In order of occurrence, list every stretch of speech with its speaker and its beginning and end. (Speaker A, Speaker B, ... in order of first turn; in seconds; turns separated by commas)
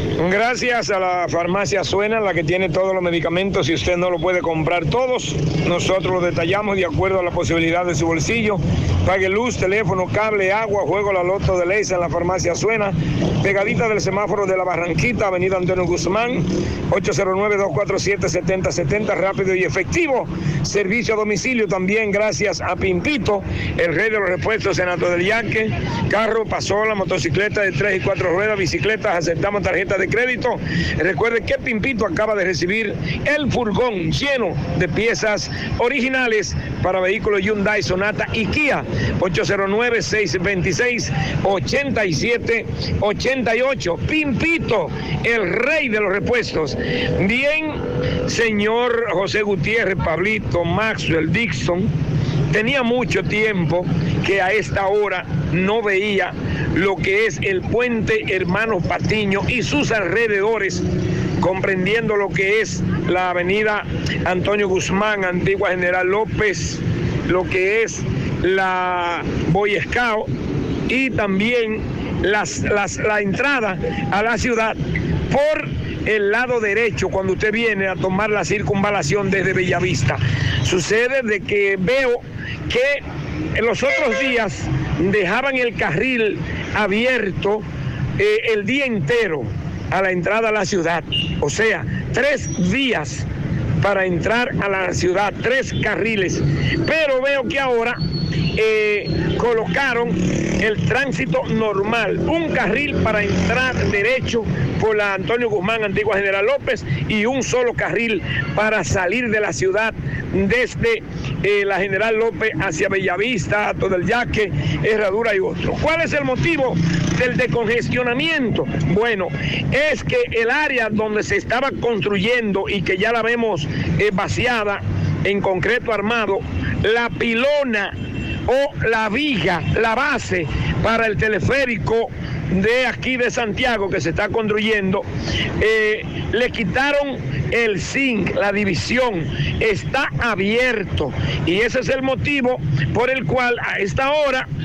Speaker A: 0.2-51.9, Speaker A: 52.5-60.8, Speaker A: 61.4-70.3, Speaker A: 70.9-74.8, Speaker A: 75.3-83.0, Speaker A: 83.6-87.6, Speaker A: 88.2-93.3, Speaker A: 93.8-98.0, Speaker A: 98.6-128.0, Speaker A: 128.5-135.1, Speaker A: 135.6-144.5